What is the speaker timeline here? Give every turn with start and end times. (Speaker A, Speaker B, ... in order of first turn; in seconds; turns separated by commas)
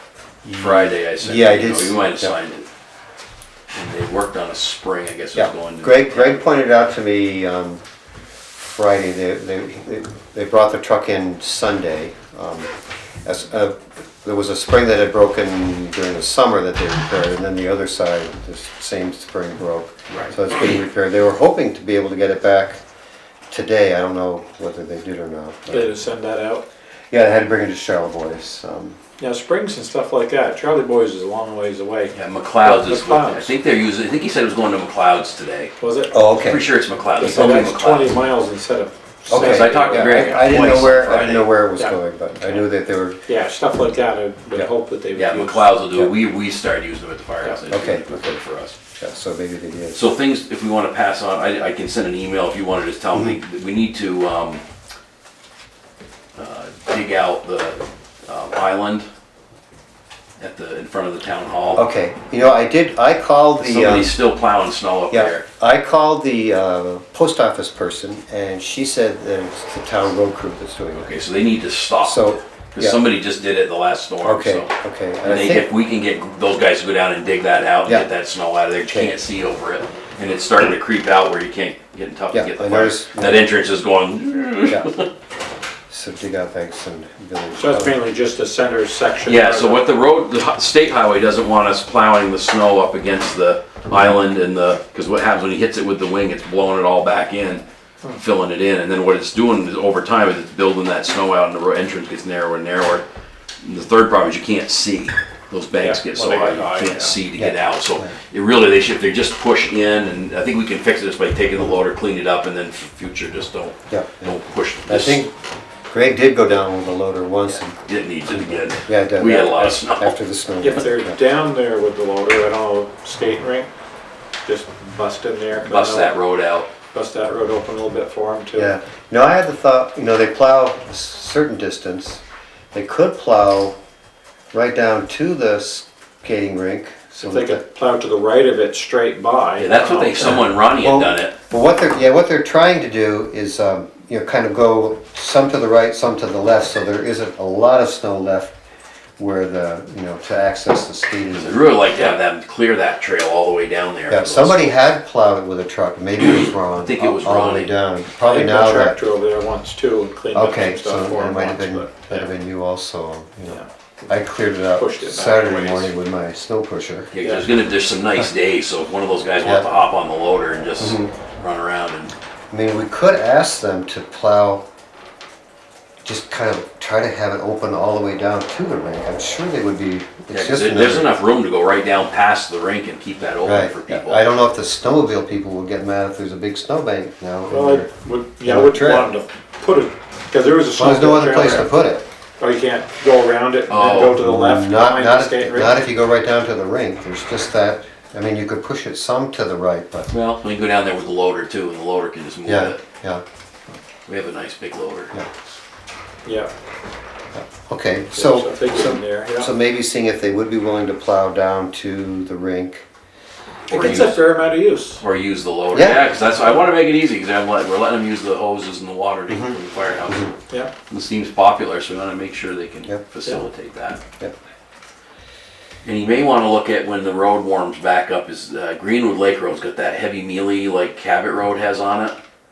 Speaker A: 0.4-2.4, Speaker B: 0.6-2.6, Speaker B: 3.7-6.4, Speaker A: 5.3-7.8, Speaker A: 8.6-12.7, Speaker A: 13.2-22.8, Speaker B: 20.1-20.7, Speaker A: 23.5-25.9, Speaker C: 25.7-26.6, Speaker A: 27.1-29.0, Speaker C: 29.2-33.5, Speaker B: 32.1-35.7, Speaker C: 35.8-36.2, Speaker A: 36.1-36.6, Speaker B: 36.3-38.1, Speaker C: 37.1-40.5, Speaker A: 37.3-37.7, Speaker A: 39.3-43.2, Speaker B: 39.3-41.5, Speaker C: 41.8-42.6, Speaker C: 43.3-45.7, Speaker B: 45.1-48.8, Speaker A: 47.7-48.4, Speaker A: 48.9-50.0, Speaker B: 49.9-54.6, Speaker A: 53.1-53.4, Speaker B: 56.4-59.1, Speaker B: 60.4-61.8, Speaker A: 61.7-64.2, Speaker B: 63.6-65.4, Speaker A: 65.1-71.2, Speaker B: 71.0-74.7, Speaker A: 72.0-73.0, Speaker A: 74.2-75.7, Speaker B: 75.2-85.1, Speaker A: 78.8-79.2, Speaker A: 82.3-83.5, Speaker A: 85.9-88.0, Speaker C: 87.5-89.9, Speaker B: 89.2-103.0, Speaker B: 103.6-115.2, Speaker C: 105.8-107.2, Speaker A: 107.3-108.1, Speaker A: 113.9-115.3, Speaker A: 115.9-121.2, Speaker B: 117.8-120.2, Speaker C: 120.6-123.7, Speaker C: 124.4-126.2, Speaker B: 125.6-126.7, Speaker C: 126.9-128.7, Speaker A: 128.5-132.2, Speaker A: 132.7-133.8, Speaker A: 134.5-137.6, Speaker C: 137.2-140.4, Speaker B: 139.6-141.3, Speaker A: 140.2-148.6, Speaker A: 149.2-151.7, Speaker B: 151.3-154.7, Speaker A: 154.1-159.0, Speaker B: 156.7-157.7, Speaker C: 158.2-162.3, Speaker A: 160.3-167.1, Speaker C: 163.5-164.1, Speaker C: 164.8-165.9, Speaker B: 167.1-172.1, Speaker A: 169.4-169.7, Speaker A: 170.8-171.1, Speaker A: 172.5-174.6, Speaker A: 176.0-181.1, Speaker B: 180.3-184.2, Speaker A: 183.4-187.9, Speaker C: 187.5-191.7, Speaker A: 188.4-189.1, Speaker A: 190.8-192.0, Speaker C: 192.4-195.8, Speaker B: 193.7-194.2, Speaker A: 194.1-200.1, Speaker B: 200.1-202.8, Speaker A: 202.4-203.2, Speaker B: 204.1-205.1, Speaker C: 206.2-206.5, Speaker A: 207.3-212.8, Speaker C: 208.1-209.5, Speaker C: 213.7-215.0, Speaker B: 213.7-214.2, Speaker A: 213.7-214.2, Speaker B: 215.0-224.0, Speaker A: 215.7-216.0, Speaker A: 219.3-219.6, Speaker A: 220.1-220.3, Speaker B: 225.8-232.2